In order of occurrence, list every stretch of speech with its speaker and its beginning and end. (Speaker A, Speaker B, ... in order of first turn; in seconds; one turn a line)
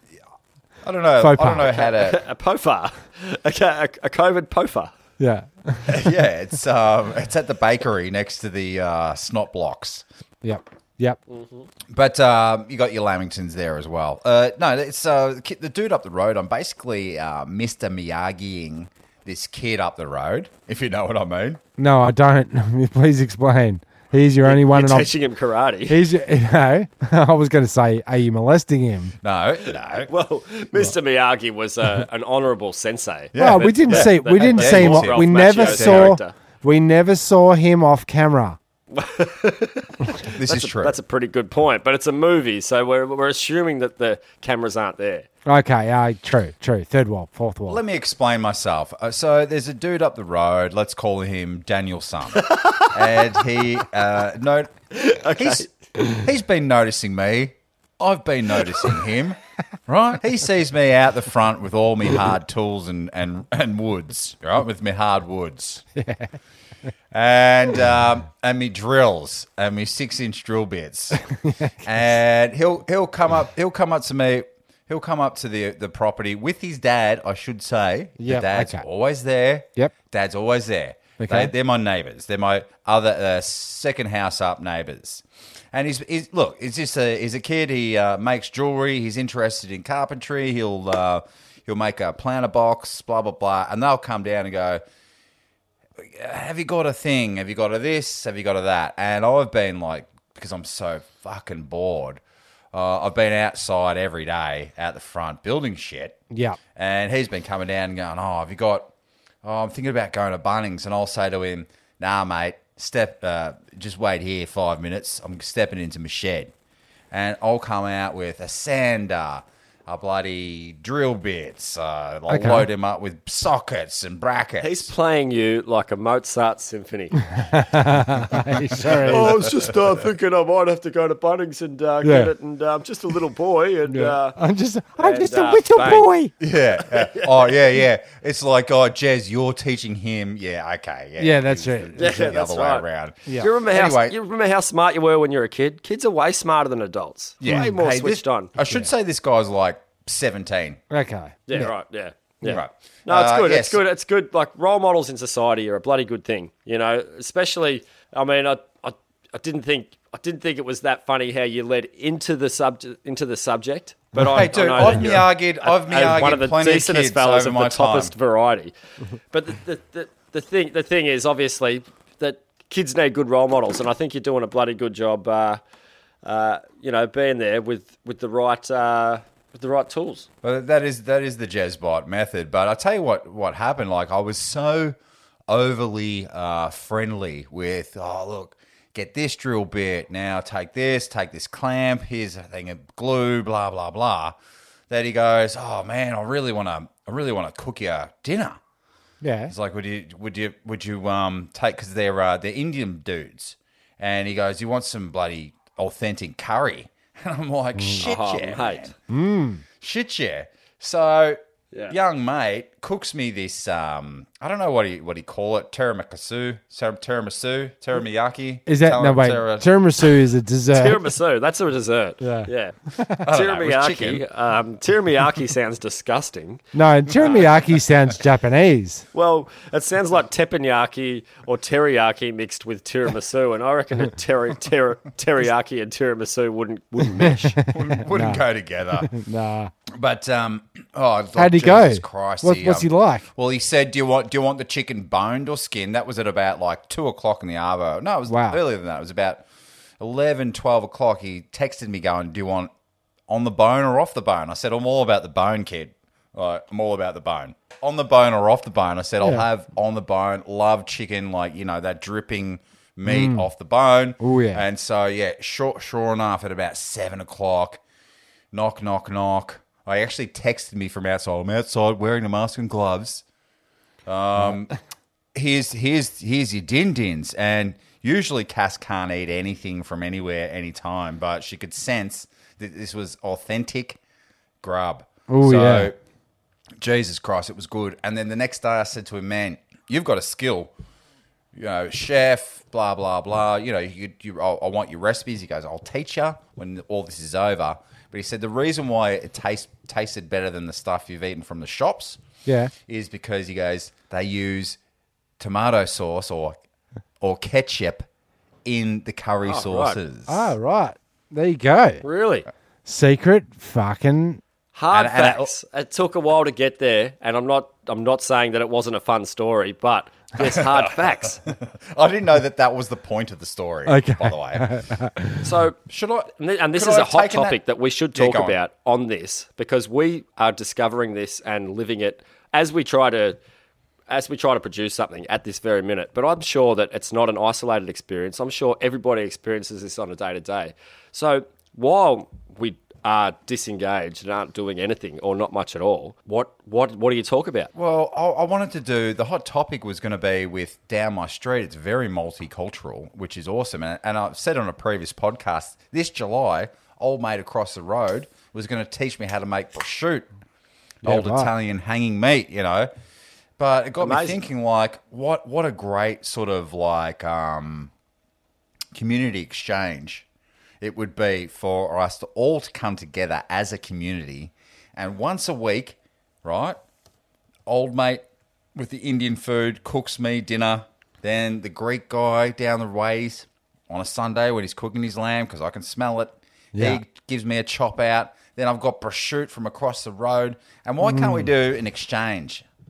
Speaker A: 0.8-2.2
Speaker B: 1.2-1.7
Speaker C: 1.6-4.9
Speaker B: 5.2-6.1
Speaker A: 5.8-10.0
Speaker B: 10.4-11.2
Speaker C: 11.3-11.7
Speaker A: 11.9-21.6
Speaker B: 21.8-25.1
Speaker C: 24.4-26.0
Speaker B: 25.9-29.1
Speaker A: 29.2-30.1
Speaker C: 29.7-36.3
Speaker A: 33.3-36.2
Speaker B: 33.4-38.6
Speaker C: 38.9-45.3
Speaker A: 40.3-40.9
Speaker B: 45.5-47.8
Speaker A: 47.7-54.7
Speaker C: 52.3-53.0
Speaker C: 54.9-55.7
Speaker A: 55.3-65.8
Speaker B: 66.0-66.3
Speaker A: 67.1-71.2
Speaker B: 71.4-71.8
Speaker A: 71.8-94.8
Speaker B: 78.2-78.8
Speaker B: 81.2-81.5
Speaker A: 96.0-102.2
Speaker A: 102.7-106.2
Speaker B: 106.3-106.6
Speaker A: 106.7-108.9
Speaker A: 109.4-116.5
Speaker A: 117.1-124.9
Speaker B: 122.3-122.7
Speaker C: 124.6-127.2
Speaker B: 127.4-129.3
Speaker C: 129.0-134.4
Speaker A: 129.1-129.5
Speaker B: 132.0-132.3
Speaker B: 133.9-136.3
Speaker C: 135.0-136.1
Speaker A: 136.4-144.2
Speaker C: 136.8-137.6
Speaker B: 141.2-142.3
Speaker C: 142.0-142.8
Speaker C: 143.4-148.5
Speaker A: 147.4-150.8
Speaker B: 147.4-147.7
Speaker B: 150.9-151.7
Speaker C: 151.5-168.7
Speaker A: 152.4-153.8
Speaker A: 164.2-168.1
Speaker C: 169.3-175.6
Speaker C: 176.2-180.3
Speaker A: 180.4-184.9
Speaker A: 185.5-194.3
Speaker A: 194.9-198.6
Speaker B: 199.2-199.5
Speaker A: 199.5-208.9
Speaker C: 208.0-208.9
Speaker B: 209.1-209.6
Speaker A: 209.8-219.7
Speaker B: 218.7-221.0
Speaker C: 220.7-226.6
Speaker B: 222.2-223.2
Speaker A: 223.2-224.2
Speaker B: 226.7-229.0
Speaker C: 227.2-227.6
Speaker C: 229.1-237.6
Speaker B: 237.2-238.4
Speaker A: 237.7-239.1
Speaker B: 239.0-239.7
Speaker A: 239.9-249.4
Speaker B: 241.3-243.3
Speaker B: 248.3-248.6
Speaker A: 250.0-252.7
Speaker A: 253.3-267.8
Speaker B: 263.0-263.5
Speaker B: 264.2-264.6
Speaker A: 268.5-273.2
Speaker A: 274.1-274.7
Speaker A: 275.3-284.0
Speaker A: 284.6-285.9
Speaker B: 285.3-285.9
Speaker A: 286.8-290.7
Speaker A: 291.5-302.2
Speaker B: 302.4-302.7
Speaker A: 302.9-304.8
Speaker A: 305.4-306.6
Speaker A: 307.2-308.1
Speaker A: 308.6-310.5
Speaker C: 309.4-310.0
Speaker B: 310.3-312.0
Speaker C: 312.0-312.5
Speaker B: 312.8-314.4
Speaker C: 314.7-321.4
Speaker A: 314.9-315.5
Speaker A: 320.4-324.7
Speaker B: 323.9-325.5
Speaker C: 325.4-325.8
Speaker A: 325.9-327.6
Speaker C: 326.4-333.4
Speaker A: 328.1-328.6
Speaker C: 334.1-347.7
Speaker A: 347.7-360.3
Speaker B: 361.0-361.5
Speaker A: 361.0-362.9
Speaker A: 363.6-367.9
Speaker C: 364.0-364.4
Speaker A: 368.9-370.2
Speaker A: 370.8-376.8
Speaker A: 377.7-378.2
Speaker A: 378.7-392.6
Speaker B: 386.7-387.0
Speaker B: 391.0-391.5